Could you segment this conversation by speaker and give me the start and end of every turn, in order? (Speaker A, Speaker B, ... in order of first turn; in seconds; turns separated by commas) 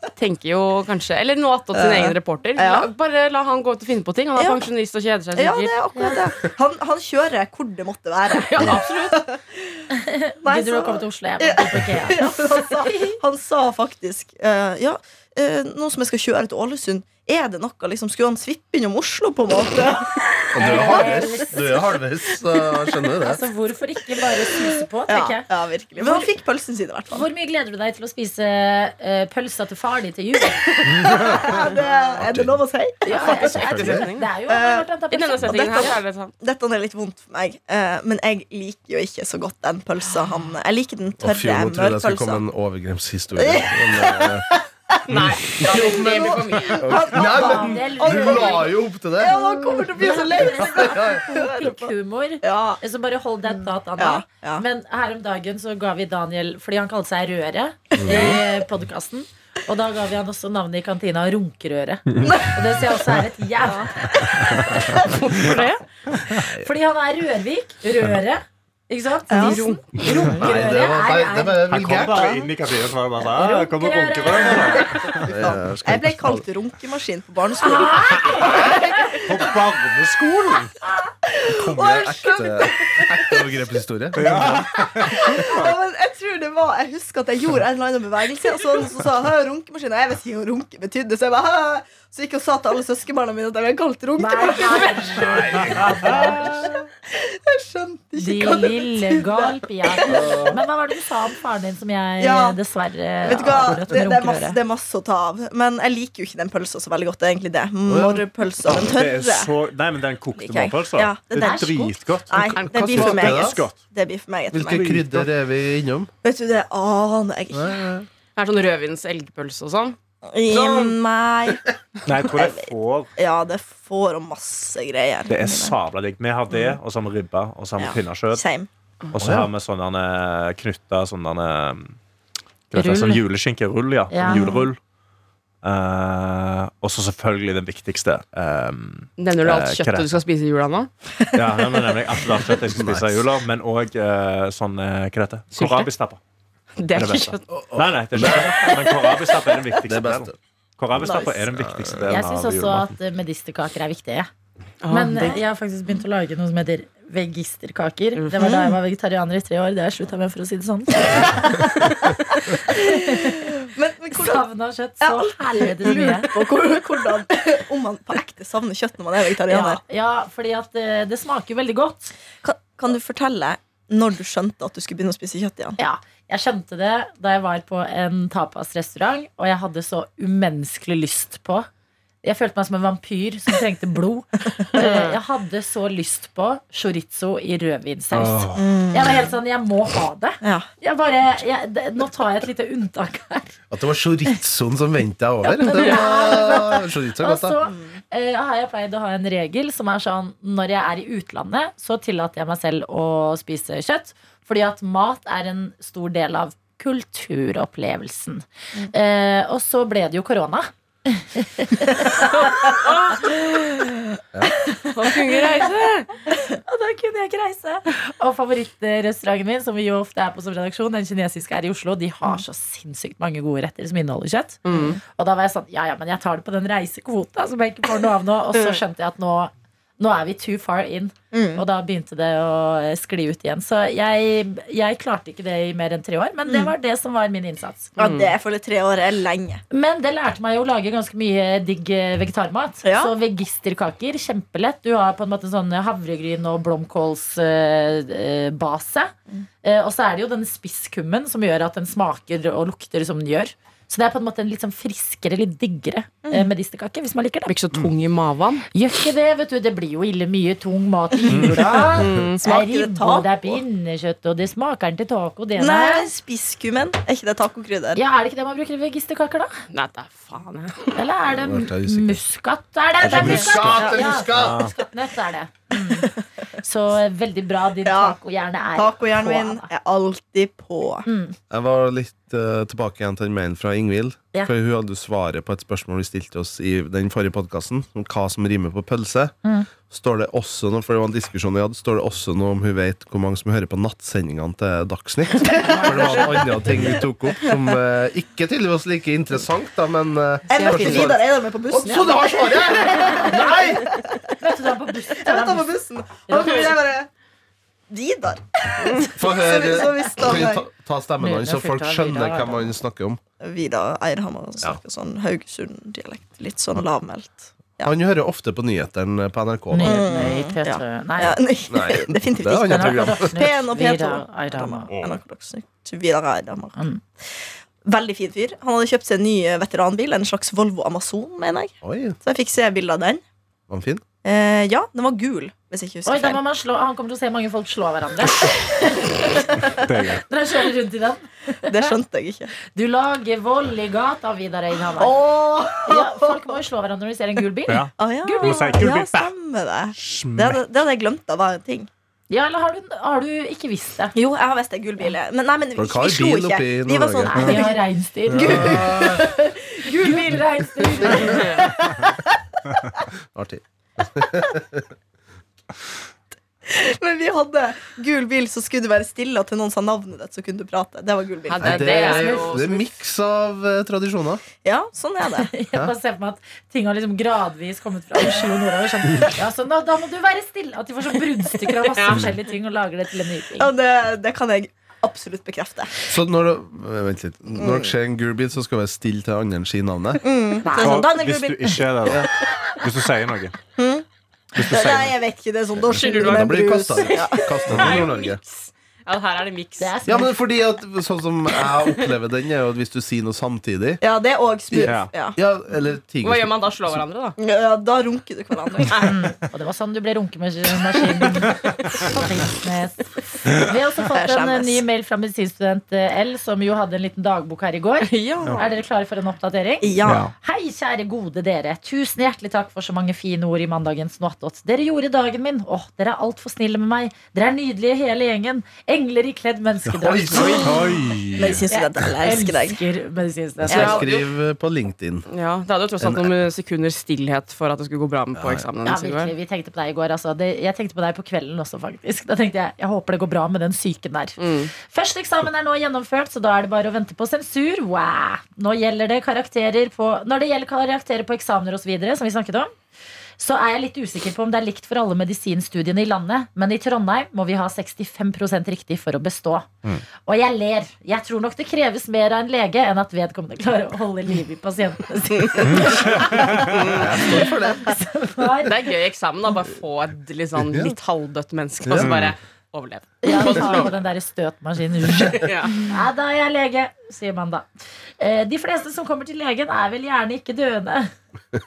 Speaker A: 0.2-5.8, Speaker B: 1.7-2.9, Speaker B: 4.4-4.6, Speaker B: 5.3-9.8, Speaker C: 5.9-6.2, Speaker A: 8.5-9.2, Speaker C: 9.9-13.2, Speaker B: 10.4-21.2, Speaker D: 20.5-23.4, Speaker C: 20.6-21.9, Speaker C: 23.2-25.4, Speaker B: 24.5-27.2, Speaker C: 26.0-26.3, Speaker C: 27.1-30.7, Speaker B: 30.6-33.5, Speaker D: 31.1-32.6, Speaker C: 33.0-36.0, Speaker A: 33.1-34.3, Speaker E: 33.5-34.0, Speaker D: 33.8-34.0, Speaker B: 34.5-42.4, Speaker A: 35.1-36.3, Speaker D: 41.2-44.5, Speaker B: 43.4-44.4, Speaker A: 45.1-47.1, Speaker E: 45.1-45.5, Speaker D: 45.6-51.2, Speaker B: 45.6-52.8, Speaker C: 47.1-64.2, Speaker B: 54.0-54.6, Speaker B: 57.9-58.4, Speaker D: 58.0-58.4, Speaker B: 62.2-62.5, Speaker B: 63.7-65.1, Speaker A: 65.0-65.8, Speaker D: 66.3-66.7, Speaker C: 66.6-71.7, Speaker B: 69.3-70.3, Speaker A: 69.3-70.3, Speaker D: 70.3-72.4, Speaker E: 71.7-75.5, Speaker C: 73.3-75.2, Speaker D: 75.2-76.4, Speaker B: 75.4-79.5, Speaker C: 77.6-79.2, Speaker E: 78.2-80.8, Speaker B: 81.3-83.5, Speaker D: 81.5-85.4, Speaker E: 84.2-85.7, Speaker B: 84.4-95.6, Speaker C: 94.2-96.7, Speaker D: 95.2-96.7, Speaker E: 95.4-96.7, Speaker B: 96.1-96.4, Speaker B: 97.1-100.6, Speaker C: 98.2-104.6, Speaker D: 100.1-100.6, Speaker B: 102.2-102.6, Speaker B: 103.2-109.5, Speaker D: 107.8-108.8, Speaker E: 108.7-113.8, Speaker B: 110.3-114.9, Speaker C: 111.4-111.9, Speaker D: 112.6-113.6, Speaker D: 114.5-116.1, Speaker E: 114.6-115.3, Speaker B: 116.2-117.8, Speaker D: 117.5-118.1, Speaker A: 118.3-120.0, Speaker B: 120.3-121.6, Speaker E: 122.0-123.1, Speaker B: 122.2-125.8, Speaker E: 125.3-128.4, Speaker B: 127.8-128.7, Speaker E: 129.1-132.0, Speaker D: 129.2-129.5, Speaker E: 132.7-134.8, Speaker C: 132.7-133.2, Speaker C: 134.1-134.5, Speaker B: 134.2-134.7, Speaker E: 135.6-140.1, Speaker A: 139.2-140.9, Speaker E: 141.3-146.2, Speaker D: 142.7-143.2, Speaker A: 145.5-145.9, Speaker A: 146.8-147.4, Speaker E: 146.9-152.9, Speaker D: 147.5-148.6, Speaker D: 149.8-150.3, Speaker D: 150.9-152.1, Speaker B: 151.0-151.3, Speaker C: 152.1-154.3, Speaker A: 154.8-155.4, Speaker C: 154.9-163.5, Speaker B: 158.4-158.7, Speaker B: 162.6-164.4, Speaker C: 164.2-166.4, Speaker B: 165.0-169.8, Speaker C: 169.5-172.1, Speaker B: 172.4-175.8, Speaker C: 175.8-181.7, Speaker C: 182.2-193.6, Speaker E: 188.2-188.6, Speaker D: 188.2-188.6, Speaker B: 188.6-189.3, Speaker B: 190.4-190.7, Speaker D: 193.7-197.6, Speaker C: 195.4-212.9, Speaker B: 197.7-198.0, Speaker C: 214.7-215.3, Speaker A: 214.9-216.1, Speaker C: 216.5-237.9, Speaker A: 224.6-225.0, Speaker B: 231.3-231.6, Speaker B: 236.5-236.7, Speaker B: 238.0-239.6, Speaker A: 238.0-238.3, Speaker C: 239.7-257.5, Speaker B: 242.8-243.1, Speaker A: 257.5-258.6, Speaker C: 258.7-266.1, Speaker E: 261.3-261.8, Speaker B: 261.4-263.6, Speaker A: 261.9-262.4, Speaker B: 265.6-268.0, Speaker C: 267.9-269.5, Speaker A: 269.7-271.0, Speaker C: 270.9-279.7, Speaker D: 271.3-272.2, Speaker D: 273.0-274.7, Speaker E: 273.1-274.7, Speaker B: 277.8-278.2, Speaker B: 278.7-281.1, Speaker C: 281.1-281.3, Speaker D: 281.5-289.3, Speaker D: 289.9-303.9, Speaker C: 295.5-296.7, Speaker B: 300.5-304.3, Speaker C: 300.6-301.0, Speaker C: 303.0-305.7, Speaker B: 305.1-307.1, Speaker C: 306.3-306.7, Speaker B: 307.9-310.6, Speaker D: 309.1-313.2, Speaker C: 311.2-312.7, Speaker B: 313.4-317.9, Speaker D: 317.8-320.3, Speaker C: 319.7-321.4, Speaker B: 319.8-326.8, Speaker D: 321.7-323.4, Speaker C: 322.7-324.9, Speaker E: 324.9-325.2, Speaker C: 326.8-327.0, Speaker B: 327.8-333.2, Speaker D: 331.8-332.1, Speaker D: 333.7-334.0, Speaker B: 334.2-336.4, Speaker C: 336.1-339.7, Speaker E: 339.7-340.2, Speaker C: 340.2-341.9, Speaker B: 341.7-342.5, Speaker C: 342.7-345.2, Speaker B: 345.0-346.6, Speaker C: 345.8-348.9, Speaker E: 347.7-349.3, Speaker B: 348.0-351.9, Speaker E: 349.9-350.6, Speaker C: 352.3-354.1, Speaker B: 354.1-357.8, Speaker D: 355.8-357.6, Speaker C: 357.2-359.3, Speaker B: 358.3-362.1, Speaker D: 358.4-359.2, Speaker C: 359.8-361.7, Speaker D: 363.3-364.9, Speaker B: 366.6-372.3, Speaker A: 371.5-372.9, Speaker D: 371.6-374.4, Speaker C: 372.1-372.5, Speaker B: 374.6-375.5, Speaker C: 375.4-383.7, Speaker A: 381.9-382.3, Speaker B: 383.6-386.1, Speaker D: 386.1-390.2, Speaker B: 387.6-387.9, Speaker B: 390.2-392.2, Speaker C: 390.6-391.1, Speaker E: 390.8-393.6, Speaker B: 393.8-394.0, Speaker E: 394.5-395.2, Speaker B: 394.6-398.0, Speaker A: 395.9-399.9, Speaker D: 395.9-398.4, Speaker E: 397.7-398.0, Speaker C: 399.8-400.4, Speaker D: 400.1-404.0, Speaker B: 404.0-405.4, Speaker D: 404.7-407.0, Speaker E: 404.8-405.1, Speaker A: 406.2-407.4, Speaker B: 407.4-409.2, Speaker C: 409.0-430.9, Speaker B: 414.1-414.8, Speaker A: 418.0-418.6, Speaker B: 419.8-420.3, Speaker E: 420.0-420.3, Speaker D: 429.9-430.9, Speaker E: 430.6-431.6, Speaker B: 431.4-432.8, Speaker C: 431.7-434.1, Speaker D: 433.6-435.3, Speaker A: 433.7-434.2, Speaker A: 435.3-439.3, Speaker D: 436.0-436.3, Speaker D: 438.4-438.6, Speaker C: 438.8-452.7, Speaker A: 444.4-444.7, Speaker C: 453.4-459.7, Speaker C: 460.2-468.8, Speaker E: 465.6-467.0, Speaker D: 466.8-468.0, Speaker A: 468.6-473.9, Speaker D: 470.7-470.9, Speaker D: 471.8-472.2, Speaker E: 472.0-472.3, Speaker C: 473.2-477.7, Speaker A: 475.2-475.9, Speaker C: 478.2-481.1